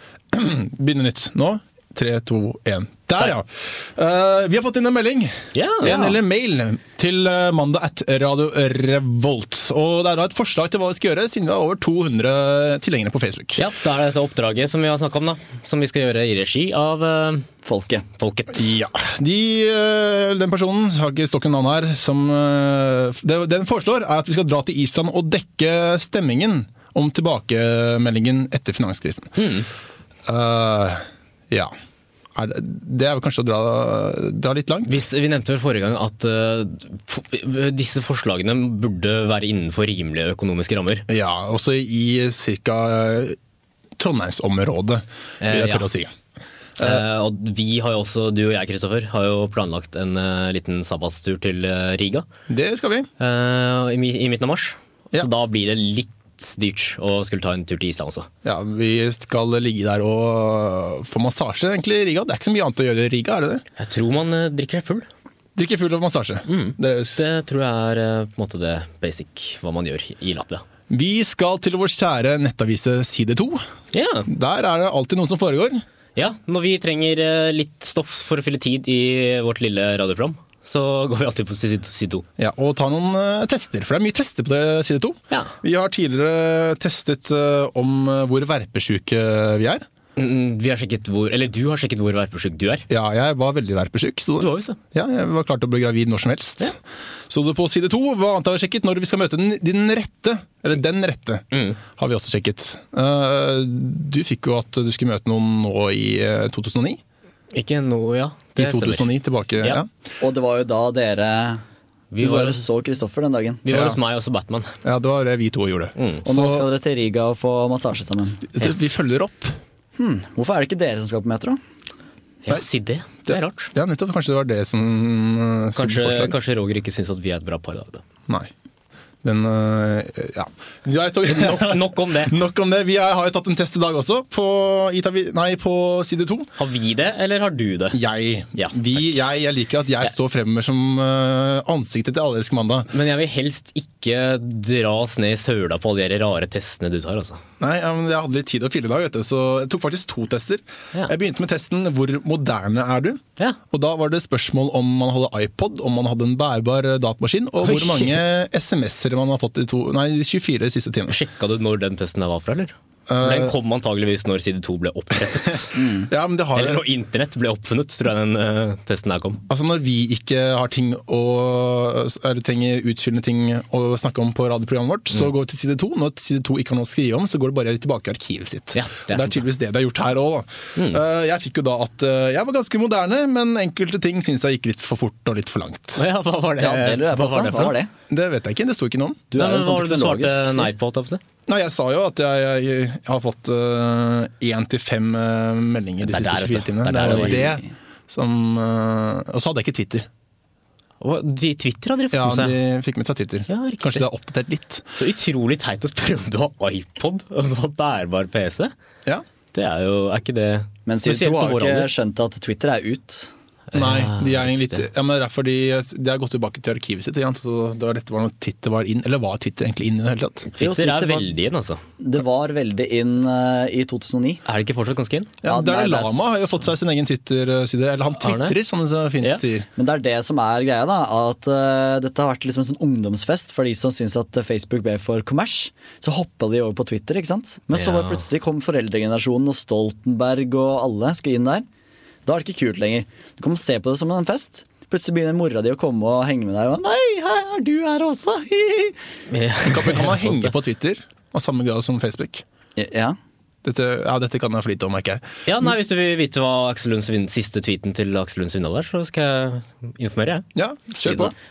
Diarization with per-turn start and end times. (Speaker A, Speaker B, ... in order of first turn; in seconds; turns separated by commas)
Speaker A: 0.3-13.6, Speaker B: 5.5-5.9, Speaker C: 5.8-6.2, Speaker B: 13.6-17.5, Speaker C: 17.6-18.1, Speaker B: 18.2-18.7, Speaker A: 18.5-29.4, Speaker B: 29.4-29.7, Speaker A: 30.3-31.7, Speaker A: 32.4-35.0, Speaker B: 34.9-41.1, Speaker A: 41.1-43.4, Speaker A: 44.0-46.1, Speaker B: 45.4-45.9, Speaker A: 46.8-47.0, Speaker B: 46.8-52.3, Speaker A: 52.5-53.1, Speaker B: 53.2-58.3, Speaker A: 58.4-63.6, Speaker B: 63.8-65.1, Speaker A: 65.6-67.2, Speaker B: 66.5-70.6, Speaker A: 70.9-73.6, Speaker B: 73.9-74.3, Speaker A: 74.3-75.8, Speaker B: 76.2-82.2, Speaker A: 82.4-89.8, Speaker B: 90.2-92.9, Speaker A: 92.9-96.8, Speaker B: 94.4-94.8, Speaker A: 97.3-107.0, Speaker B: 101.5-101.8, Speaker B: 107.5-109.8, Speaker A: 108.6-109.9, Speaker C: 110.2-111.6, Speaker B: 112.1-112.6, Speaker C: 112.2-113.7, Speaker B: 113.7-114.7, Speaker A: 113.7-114.0, Speaker A: 114.8-116.7, Speaker B: 116.0-116.2, Speaker C: 116.2-118.5, Speaker A: 118.5-119.6, Speaker C: 120.0-121.6, Speaker B: 122.5-123.7, Speaker A: 123.3-126.3, Speaker B: 125.8-128.0, Speaker A: 129.2-136.5, Speaker B: 131.3-132.4, Speaker B: 136.6-138.0, Speaker A: 137.9-142.9, Speaker B: 138.6-139.2, Speaker B: 142.9-147.4, Speaker A: 147.6-161.2, Speaker B: 157.6-158.2, Speaker B: 161.1-165.8, Speaker A: 163.1-163.6, Speaker C: 165.8-166.1, Speaker A: 166.1-166.8, Speaker B: 166.6-169.4, Speaker A: 169.5-186.0, Speaker B: 178.7-179.4, Speaker B: 180.8-181.0, Speaker B: 185.9-187.8, Speaker C: 186.6-187.9, Speaker A: 188.1-189.3, Speaker C: 189.3-190.7, Speaker B: 189.4-191.2, Speaker A: 191.5-200.1, Speaker B: 196.0-197.5, Speaker C: 197.1-197.7, Speaker B: 201.0-202.6, Speaker A: 202.1-204.8, Speaker B: 203.5-204.0, Speaker B: 204.9-208.7, Speaker B: 209.5-211.9, Speaker C: 210.9-213.3, Speaker B: 213.7-214.8, Speaker A: 213.7-220.5, Speaker B: 220.5-221.8, Speaker C: 220.6-221.3, Speaker C: 222.0-224.4, Speaker B: 224.4-225.3, Speaker A: 225.4-229.7, Speaker C: 225.4-226.5, Speaker B: 228.2-228.6, Speaker C: 229.8-241.7, Speaker B: 237.7-238.2, Speaker C: 242.3-249.0, Speaker B: 249.3-250.5, Speaker A: 249.6-252.4, Speaker C: 252.8-253.2, Speaker A: 253.6-255.2, Speaker B: 255.5-260.5, Speaker A: 260.6-261.3, Speaker C: 261.0-261.3